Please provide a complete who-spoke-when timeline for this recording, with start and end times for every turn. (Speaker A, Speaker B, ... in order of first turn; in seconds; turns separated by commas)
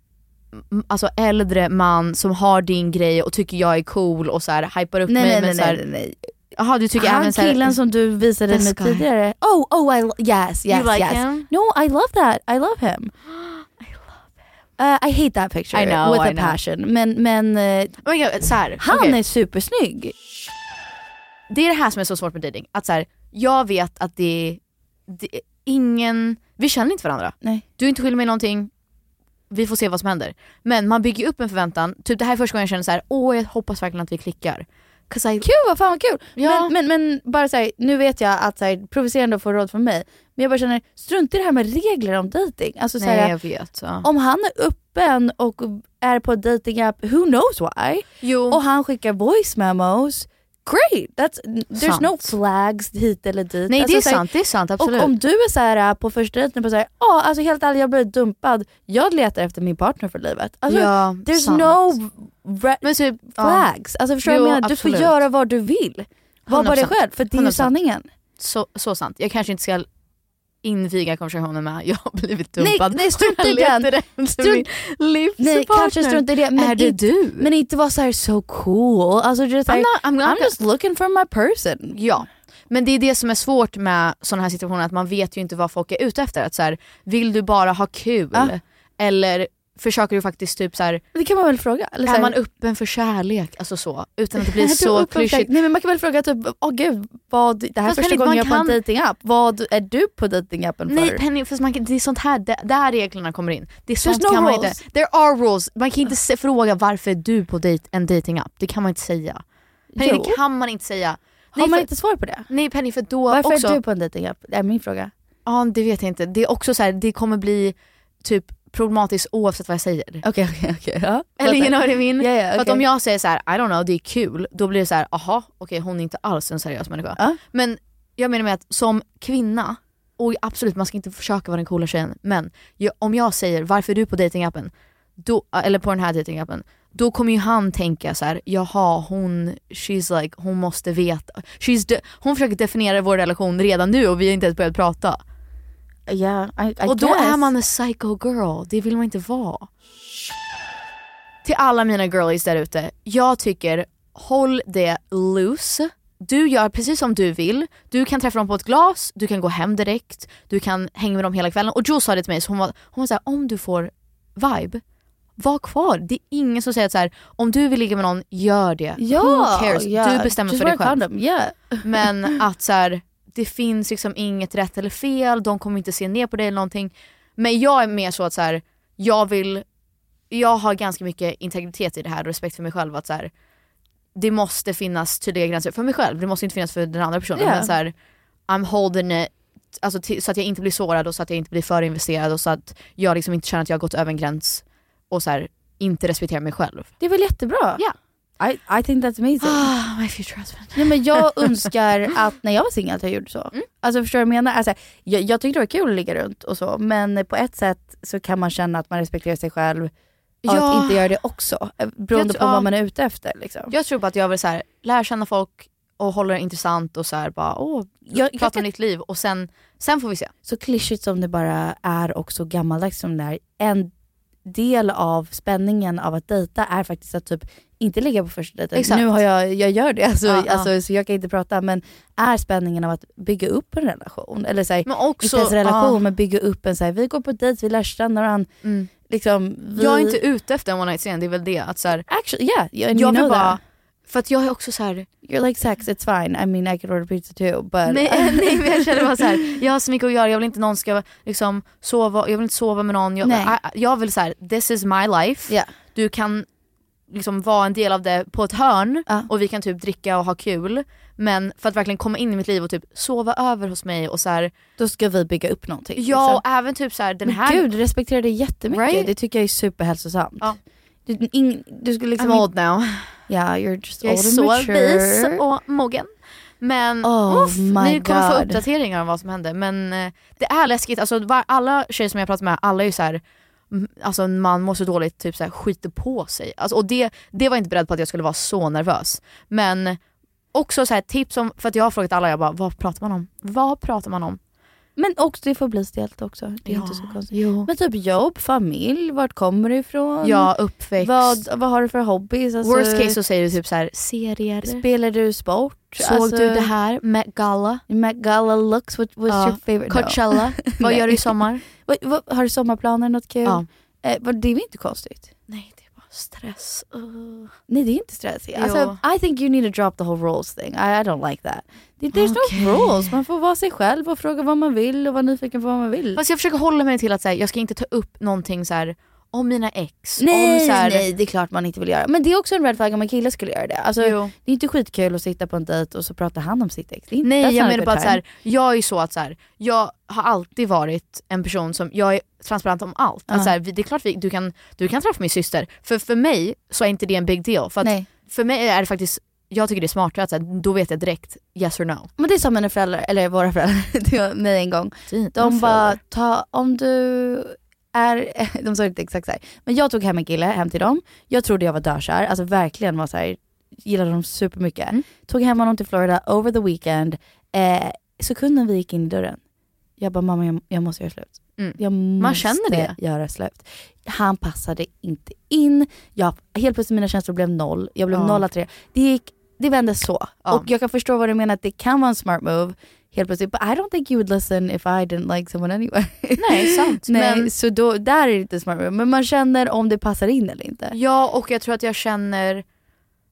Speaker A: 0.5-5.8, Speaker B: 5.1-6.2, Speaker A: 6.5-7.8, Speaker B: 7.0-13.1, Speaker A: 8.5-9.1, Speaker A: 10.7-11.5, Speaker B: 14.8-18.0, Speaker A: 15.7-16.6, Speaker A: 18.0-19.2, Speaker B: 18.8-20.1, Speaker A: 21.5-28.7, Speaker A: 29.5-35.5, Speaker B: 35.4-43.3, Speaker A: 36.4-36.7, Speaker A: 43.0-44.0, Speaker B: 44.0-54.2, Speaker A: 48.2-48.6, Speaker A: 51.7-52.3, Speaker A: 53.7-55.1, Speaker B: 54.8-68.1, Speaker A: 60.7-62.0, Speaker A: 62.8-63.7, Speaker A: 64.2-65.2, Speaker A: 66.5-67.8, Speaker A: 68.4-69.8, Speaker A: 70.6-77.5, Speaker B: 72.6-74.7, Speaker B: 75.4-82.0, Speaker A: 79.7-80.5, Speaker A: 81.9-91.0, Speaker B: 91.1-92.3, Speaker A: 92.0-95.5, Speaker B: 94.4-101.2, Speaker A: 97.8-98.8, Speaker A: 100.9-109.4, Speaker B: 104.0-104.8, Speaker B: 110.0-110.4, Speaker A: 110.0-111.9, Speaker B: 111.5-112.5, Speaker A: 112.5-113.8, Speaker B: 113.3-115.1, Speaker A: 115.4-120.2, Speaker B: 120.2-122.8, Speaker A: 121.4-145.2, Speaker B: 146.1-147.5, Speaker A: 146.8-149.7, Speaker A: 151.4-164.8, Speaker A: 165.4-171.0, Speaker B: 169.0-172.3, Speaker A: 171.8-179.6, Speaker A: 180.3-183.3, Speaker A: 184.1-187.9, Speaker B: 187.3-187.7, Speaker A: 188.5-196.9, Speaker B: 197.0-197.8, Speaker B: 198.4-199.7, Speaker A: 199.4-201.7, Speaker B: 200.7-209.9, Speaker A: 210.4-211.1, Speaker B: 210.5-213.7, Speaker A: 212.1-212.7, Speaker A: 213.7-220.3, Speaker B: 218.1-218.6, Speaker B: 220.4-223.9, Speaker B: 224.4-238.5, Speaker A: 228.7-229.1, Speaker A: 230.2-230.7, Speaker A: 234.8-236.0, Speaker A: 238.6-238.9, Speaker B: 239.1-240.2, Speaker A: 239.8-242.1, Speaker B: 242.1-243.6, Speaker A: 242.9-245.1, Speaker B: 245.2-249.6, Speaker A: 247.8-256.5, Speaker B: 253.2-253.6, Speaker A: 257.1-264.5, Speaker B: 264.8-266.4, Speaker A: 266.0-267.7, Speaker B: 267.2-270.5, Speaker A: 268.7-269.1, Speaker B: 271.1-272.5, Speaker A: 272.2-273.1, Speaker B: 273.3-275.4, Speaker A: 274.0-290.0, Speaker B: 277.0-278.6, Speaker A: 290.5-294.4, Speaker B: 295.0-303.2, Speaker A: 296.6-297.7, Speaker A: 300.2-301.4, Speaker A: 302.6-304.8, Speaker B: 304.6-306.7, Speaker A: 306.0-307.8, Speaker B: 307.9-315.3, Speaker A: 309.3-311.6, Speaker A: 315.5-317.5, Speaker B: 317.7-326.2, Speaker A: 318.5-319.0, Speaker A: 322.1-323.2, Speaker A: 326.1-331.1, Speaker B: 330.2-338.2, Speaker A: 334.0-334.3, Speaker A: 337.2-352.1, Speaker B: 343.3-343.5, Speaker B: 347.8-348.1, Speaker B: 352.2-369.4, Speaker A: 355.1-356.0, Speaker B: 370.0-391.0, Speaker A: 371.6-372.9, Speaker A: 378.1-378.4, Speaker A: 386.4-387.5, Speaker A: 390.9-392.6